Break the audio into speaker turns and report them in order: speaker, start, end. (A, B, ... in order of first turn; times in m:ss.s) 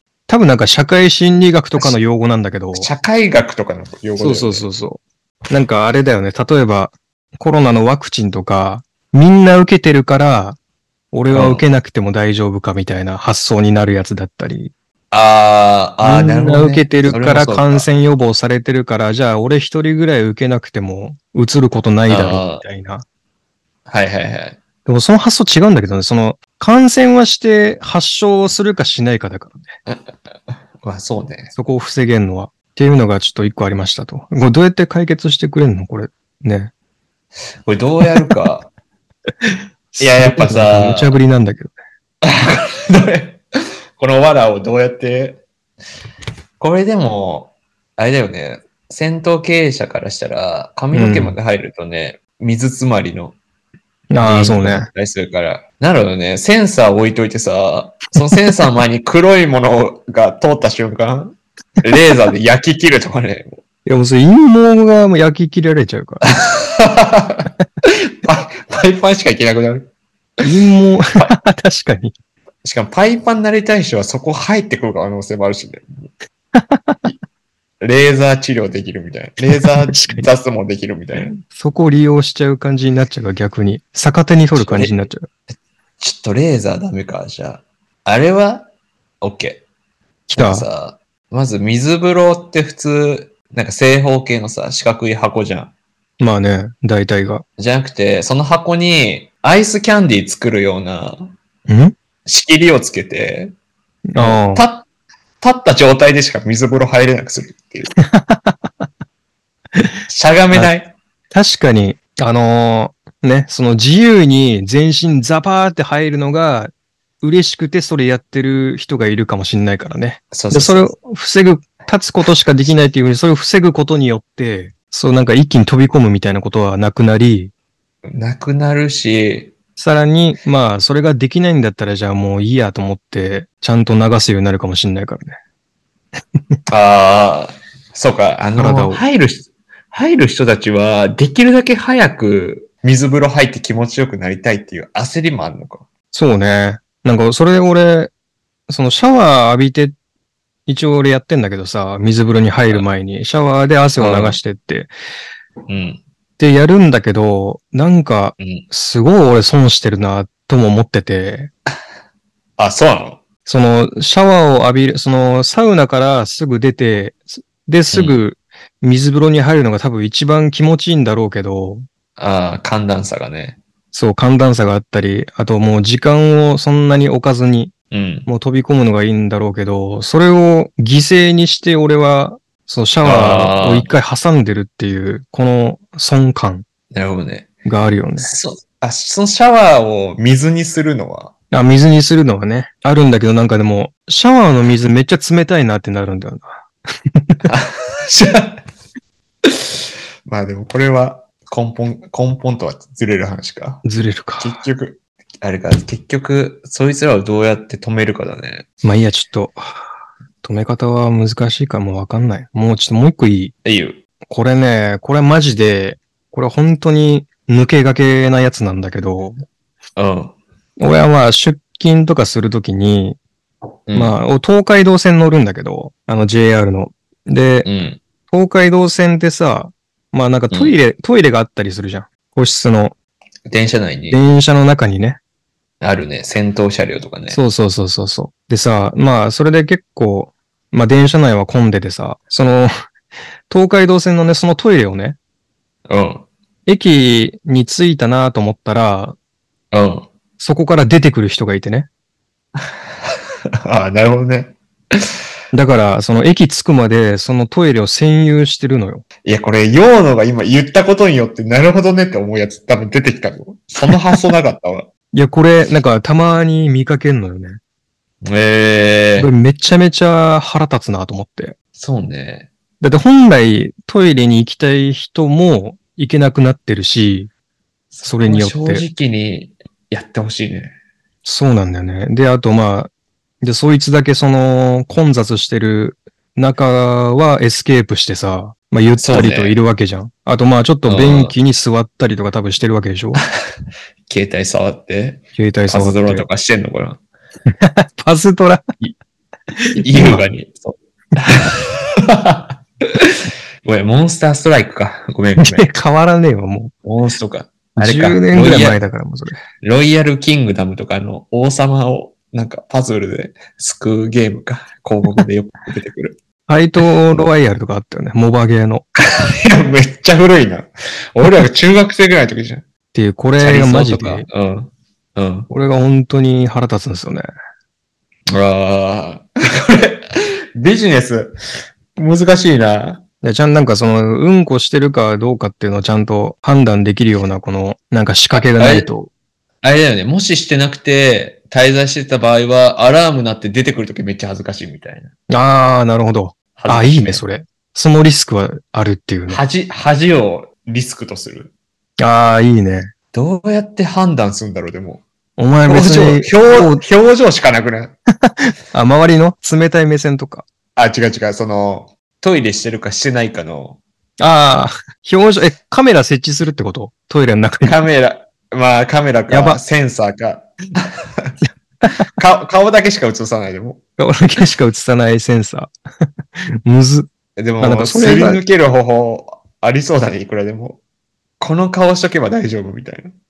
0:00.3-0:02.9 A
0:02.8-0:04.7 B
0:04.2-0:10.6 A
0:11.1-0:14.7 A
0:11.3-0:11.6 B
0:15.1-0:17.9 B
0:16.0-0:23.0 A
0:22.1-0:22.6 B
0:23.9-0:24.6 B
0:24.8-0:29.7 A
0:29.9-0:31.5 B
0:31.5-0:36.7 A
0:37.6-0:38.7 B
0:39.5-0:41.7 A
0:40.0-0:41.2 B
0:42.2-0:43.4 B
0:44.0-0:45.4 B
0:46.6-0:53.4 B
0:50.9-0:51.4 A
0:54.1-0:54.9 A
0:54.2-1:03.6 B
1:03.9-1:06.3 A
1:06.4-1:07.5 B
1:08.2-1:09.9 B
1:10.4-1:12.1 A
1:12.6-1:16.0 B
1:16.6-1:17.0 A
1:17.8-1:21.3 B
1:19.5-1:20.3 A
1:21.4-1:25.3 A
1:24.5-1:25.0 B
1:26.0-1:28.7 B
1:29.2-1:29.6 B
1:30.3-1:30.7 A
1:30.4-1:35.7 B
1:36.2-1:37.4 A
1:37.6-1:41.3 B
1:41.7-1:41.9 A
1:42.3-1:43.5 B
1:44.1-1:44.7 A
1:44.2-1:44.9 B
1:45.4-1:47.9 B
1:48.1-1:48.7 A
1:50.1-1:51.0 B
1:51.3-2:07.5 A
2:00.3-2:00.9 B
2:08.1-2:09.5 B
2:09.8-2:15.4 A
2:16.7-2:25.9 B
2:18.6-2:19.0 A
2:26.1-2:28.1 A
2:28.7-2:30.0 A
2:30.7-2:34.9 A
2:34.0-2:34.4 B
2:35.7-2:36.0 B
2:36.4-2:41.5 A
2:38.4-2:38.7 B
2:42.6-2:43.2 B
2:43.5-2:51.8 A
2:47.9-2:48.2 B
2:52.2-2:53.6 B
2:53.9-2:57.7 A
2:57.9-2:58.3 B
2:58.3-3:06.6 A
3:03.0-3:03.9 B
3:06.9-3:07.5 B
3:07.6-3:08.4 A
3:08.2-3:11.3 B
3:11.5-3:16.6 A
3:17.2-3:17.4 A
3:17.5-3:18.6 B
3:20.3-3:23.8 B
3:23.8-3:24.6 A
3:24.4-3:28.7 B
3:28.8-3:29.7 A
3:30.4-3:33.6 A
3:33.6-3:34.0 B
3:34.3-3:39.4 A
3:40.0-3:40.4 B
3:40.8-3:43.2 A
3:43.9-3:44.2 B
3:44.0-3:47.7 A
3:47.6-3:48.0 B
3:48.3-3:53.0 A
3:50.5-3:50.8 B
3:53.5-3:54.2 B
3:54.1-3:55.2 A
3:55.8-3:57.4 B
3:57.3-4:02.7 A
4:03.5-4:05.2 A
4:05.9-4:06.3 B
4:06.7-4:09.2 A
4:09.7-4:10.1 B
4:10.4-4:11.9 A
4:13.7-4:14.6 B
4:15.5-4:19.0 A
4:19.2-4:24.9 B
4:25.1-4:27.6 A
4:28.2-4:29.3 B
4:29.2-4:31.6 A
4:31.8-4:32.5 B
4:32.8-4:37.3 A
4:37.9-4:40.8 B
4:38.0-4:38.8 A
4:41.2-4:53.2 A
4:49.0-4:49.6 B
4:50.9-4:51.4 B
4:54.1-4:57.0 B
4:55.4-4:56.3 A
4:57.6-4:58.6 A
4:59.8-5:00.2 A
4:59.8-5:02.6 B
5:03.6-5:05.7 B
5:05.4-5:06.7 A
5:06.8-5:08.8 B
5:07.8-5:09.4 A
5:09.6-5:16.2 B
5:16.5-5:18.8 A
5:19.0-5:22.6 B
5:22.9-5:24.3 A
5:23.4-5:25.5 B
5:25.5-5:27.2 A
5:28.3-5:30.0 B
5:30.6-5:31.4 B
5:32.0-5:33.0 B
5:33.2-5:39.1 A
5:38.3-5:38.9 B
5:39.6-5:45.1 B
5:45.3-5:49.4 A
5:46.6-5:47.2 B
5:49.3-5:51.5 B
5:52.0-5:52.9 A
5:53.1-5:55.0 B
5:55.4-5:56.8 A
5:55.7-5:57.9 B
5:58.4-6:00.5 A
6:00.8-6:03.8 B
6:04.2-6:07.8 A
6:07.6-6:10.5 B
6:09.3-6:09.6 A
6:12.2-6:13.8 B
6:14.0-6:15.7 A
6:16.6-6:17.1 A
6:17.4-6:20.8 B
6:17.6-6:18.4 A
6:21.4-6:23.1 B